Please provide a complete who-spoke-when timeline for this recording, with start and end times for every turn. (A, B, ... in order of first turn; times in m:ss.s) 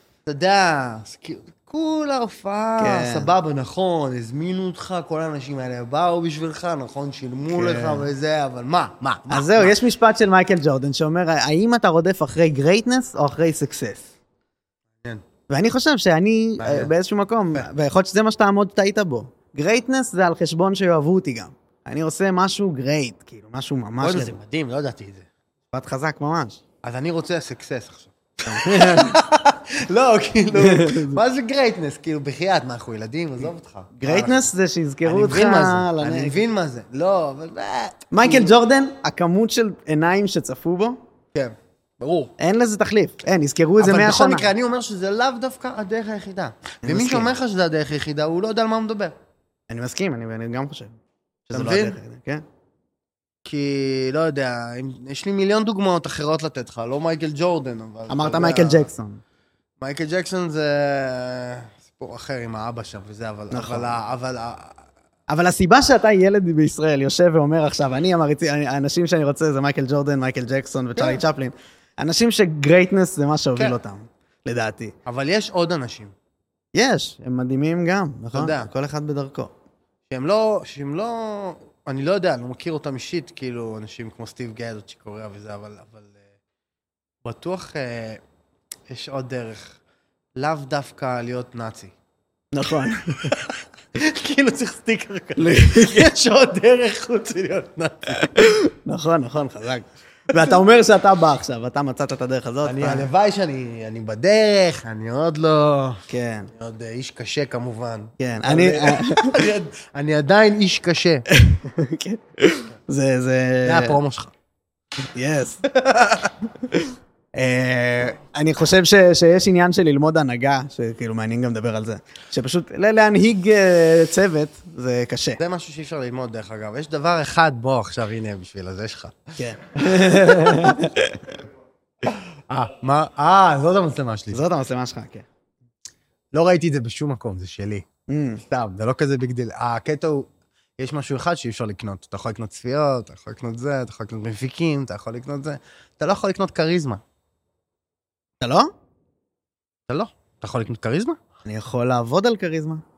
0:00.3-0:09.8 A
0:02.8-0:03.3 B
0:07.5-0:08.1 B
0:09.3-0:14.1 B
0:15.5-0:24.4 B
0:16.6-0:16.9 A
0:24.0-0:25.3 A
0:25.7-0:26.6 B
0:26.8-0:34.4 A
0:28.5-0:29.2 B
0:30.5-0:31.2 B
0:34.0-0:36.4 B
0:35.0-0:38.5 A
0:38.1-0:41.0 B
0:41.3-0:42.3 A
0:42.4-0:44.5 B
0:43.8-0:49.2 A
0:46.8-0:47.3 B
0:49.7-0:51.0 B
0:51.5-0:52.4 B
0:51.5-0:52.0 A
0:53.5-0:58.9 A
0:58.1-0:59.2 B
0:59.8-1:04.8 A
1:03.5-1:03.9 B
1:05.3-1:14.9 B
1:11.0-1:11.2 A
1:15.1-1:16.1 A
1:16.7-1:19.5 B
1:18.3-1:18.7 A
1:20.1-1:26.2 A
1:27.2-1:28.2 A
1:28.9-1:29.8 A
1:30.4-1:31.9 A
1:32.5-1:33.4 B
1:33.2-1:38.5 A
1:35.4-1:36.1 B
1:38.2-1:43.1 B
1:42.6-1:51.3 A
1:46.1-1:46.5 B
1:48.2-1:49.4 B
1:51.3-1:54.0 B
1:53.6-1:54.3 A
1:55.1-1:55.6 B
1:55.7-1:56.3 A
1:56.6-2:05.4 B
2:05.4-2:09.4 A
2:09.4-2:11.4 B
2:09.9-2:10.8 A
2:12.1-2:14.4 A
2:14.3-2:15.3 B
2:16.3-2:17.8 A
2:18.1-2:18.4 B
2:18.5-2:27.0 A
2:28.4-2:28.7 B
2:29.9-2:31.2 A
2:31.4-2:32.8 B